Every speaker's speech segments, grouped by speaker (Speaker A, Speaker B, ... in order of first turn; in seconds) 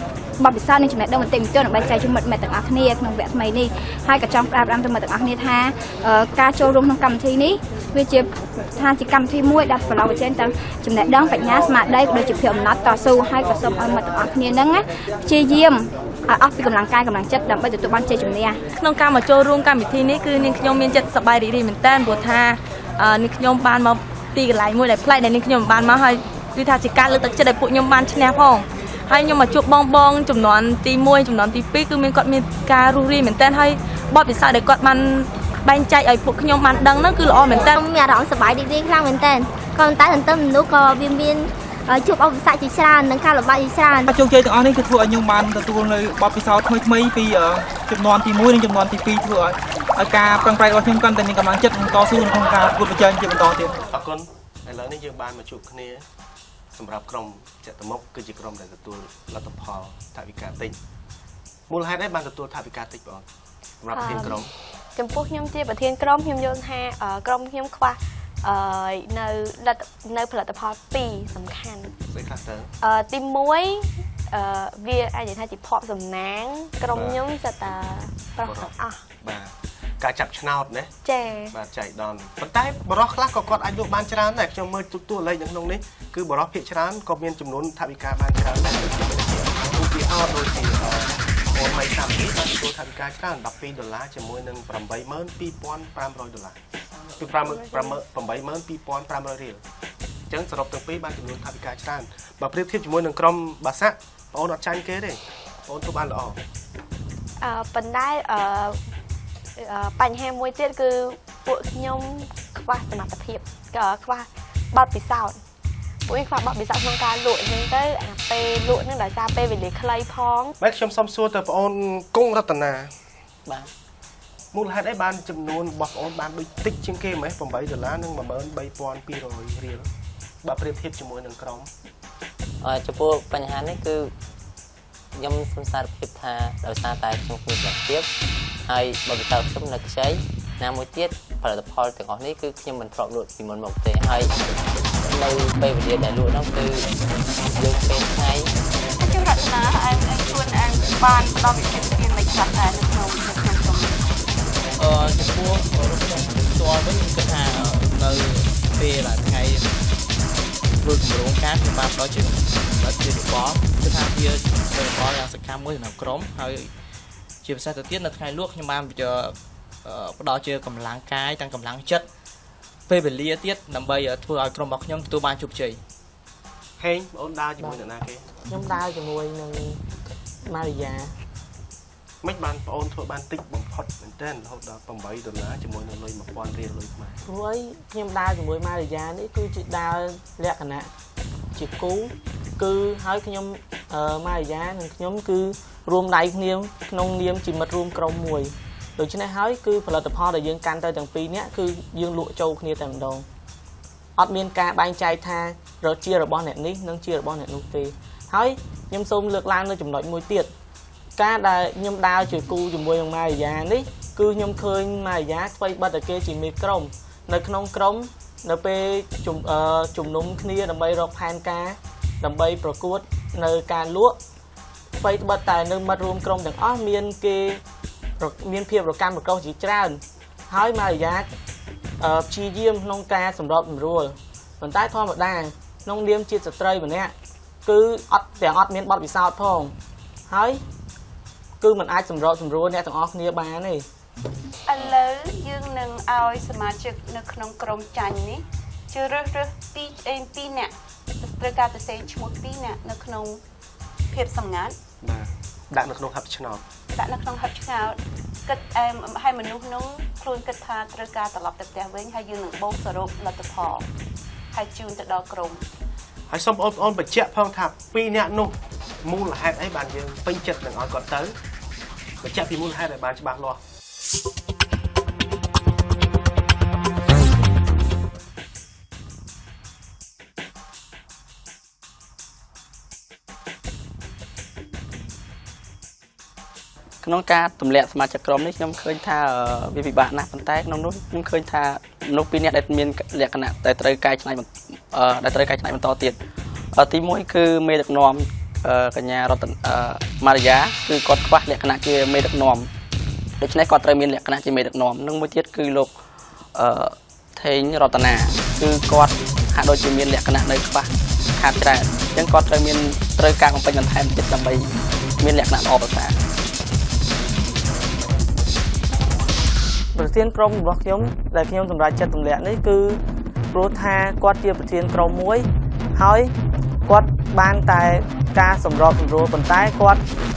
Speaker A: 0.4-18.6
Speaker B: 18.7-37.7
Speaker C: 37.7-44.1
Speaker D: 53.9-56.0, 56.7-60.8, 61.7-63.3, 63.8-64.5, 72.1-72.7, 76.9-77.2, 78.4-80.9, 81.5-96.6, 97.2-99.6, 100.3-106.4, 120.6-122.9, 124.5-129.9, 130.4-131.7, 176.8-178.3, 182.2-187.2, 255.0-256.6, 266.3-271.3, 272.2-273.6
Speaker E: 63.9-64.4, 65.0-71.9, 72.8-79.0, 81.0-81.5, 97.4-98.0, 107.4-108.8, 109.6-115.4, 116.1-120.5
Speaker F: 132.6-134.1, 135.1-138.1, 138.6-144.3, 145.1-146.8, 147.5-148.5
Speaker G: 149.0-153.9, 244.7-253.4, 254.1-254.8, 256.9-263.9, 264.5-265.6
Speaker H: 154.8-159.6, 160.8-166.6, 167.4-169.3, 169.9-172.0, 172.9-175.7
Speaker I: 178.5-179.8, 180.5-181.1, 187.2-190.9, 191.5-203.2, 204.2-210.5, 211.2-224.2, 225.0-227.6, 228.2-231.3, 232.0-237.1, 237.7-239.7, 240.3-240.6, 241.6-243.8, 319.9-323.0, 323.5-326.3, 326.9-330.0
Speaker J: 287.0-296.2, 296.7-302.7, 303.4-305.9, 306.5-314.6, 315.2-316.1